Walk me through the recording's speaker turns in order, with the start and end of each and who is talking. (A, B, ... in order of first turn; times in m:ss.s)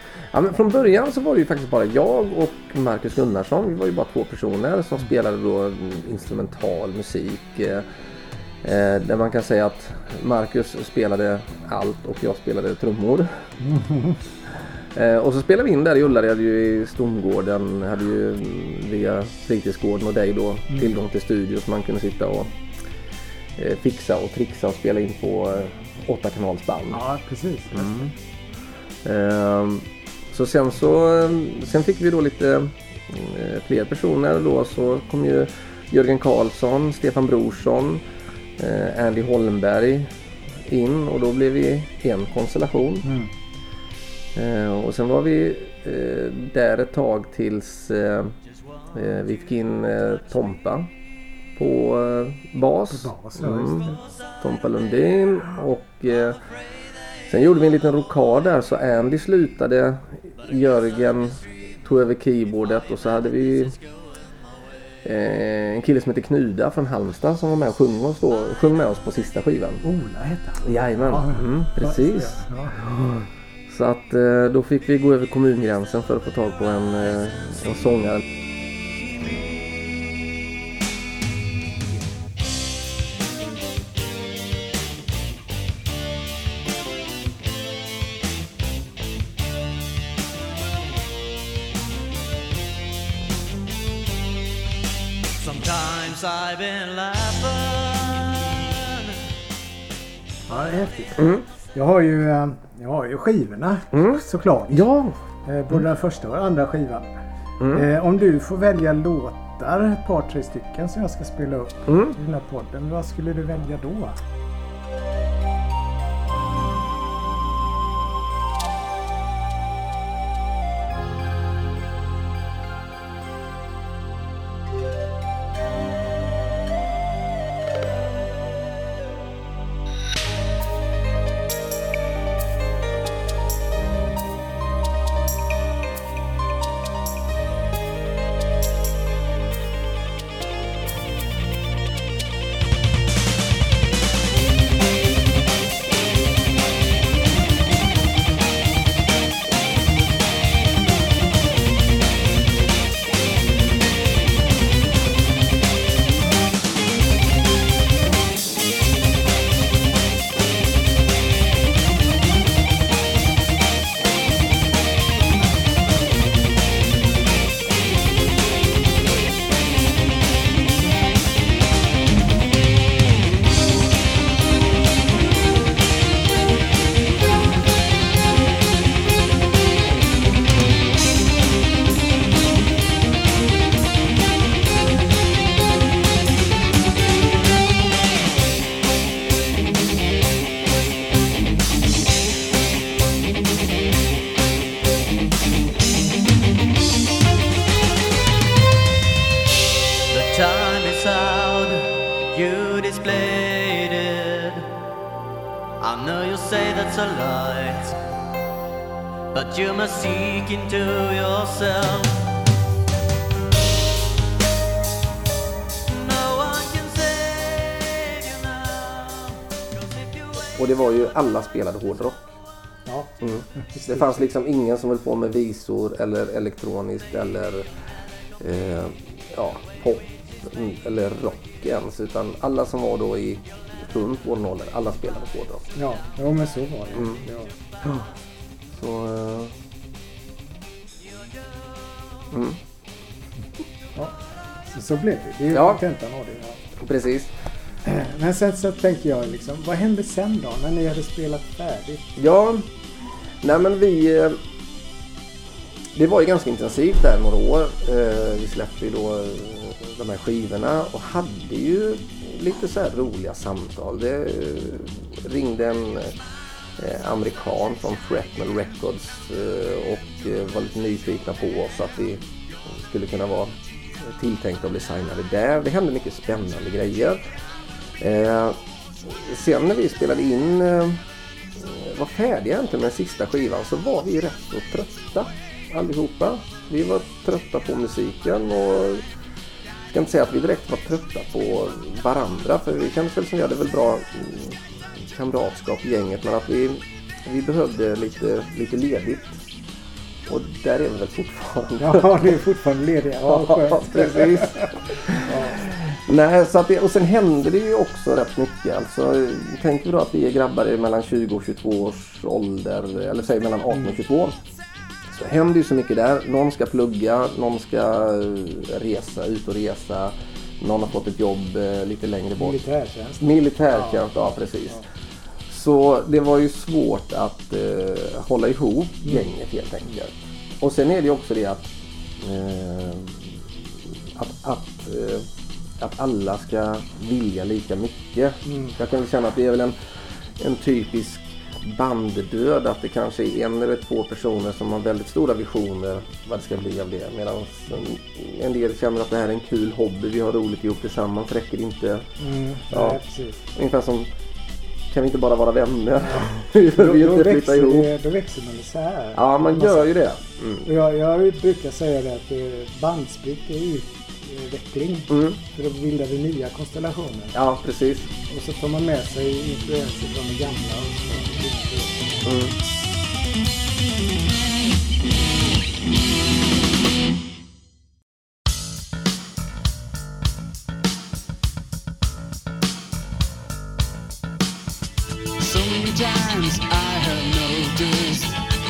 0:00.3-0:07.8 A
0:08.6-0:13.4 A
0:13.6-0:14.2 B
0:14.9-0:22.5 A
0:23.6-0:27.0 A
0:26.9-0:28.1 B
0:27.7-0:28.1 A
0:29.0-0:38.0 A
0:38.6-0:40.1 A
0:40.7-0:43.0 A
0:43.0-0:43.3 B
0:44.3-0:48.4 A
0:48.9-0:50.9 A
0:51.6-0:56.4 A
0:52.9-0:54.0 B
0:57.3-1:03.8 A
1:05.0-1:09.8 A
1:09.8-1:12.8 B
1:10.6-1:18.2 A
1:35.4-1:39.2 C
1:40.5-1:44.8 B
1:41.2-1:41.4 A
1:43.9-1:45.2 A
1:45.4-1:47.1 B
1:47.6-1:47.8 A
1:47.7-1:54.2 B
1:51.9-1:52.1 A
3:20.1-3:24.7 C
3:25.8-3:27.9 C
3:29.3-3:32.2 C
3:35.9-3:40.5 C
3:40.5-3:42.3 A
3:42.8-3:44.2 B
3:43.2-3:47.6 A
3:48.4-3:55.6 A
3:55.7-3:57.5 B
3:58.7-3:59.5 A
4:02.3-4:02.6 A
4:04.0-4:06.6 B
4:05.5-4:05.8 A
4:06.8-4:07.3 A
4:07.8-4:12.1 B
4:12.2-4:12.6 A
4:13.4-4:14.4 A
4:15.9-4:26.1 A
4:26.8-4:37.2 A
4:38.0-4:41.0 A
4:41.6-4:49.0 A
4:49.9-4:59.4 A
5:00.3-5:02.3 A
5:01.8-5:05.6 B
5:03.3-5:14.4 A
5:13.7-5:14.0 B
5:15.1-5:22.6 A
5:22.4-5:24.1 B
5:23.2-5:24.8 A
5:25.5-5:31.7 A
5:32.2-5:35.2 A
5:35.8-5:39.8 A
5:38.4-5:38.8 B
5:40.4-5:52.0 A
5:52.2-5:53.4 B
5:52.7-5:53.0 A
5:53.5-5:54.1 A
5:54.9-5:57.9 A
5:56.7-5:59.9 B
5:59.2-6:00.7 A
6:00.6-6:07.3 B
6:05.1-6:05.4 A
6:07.3-6:08.1 A
6:08.3-6:12.4 B
6:12.2-6:12.5 A
6:25.4-6:28.4 D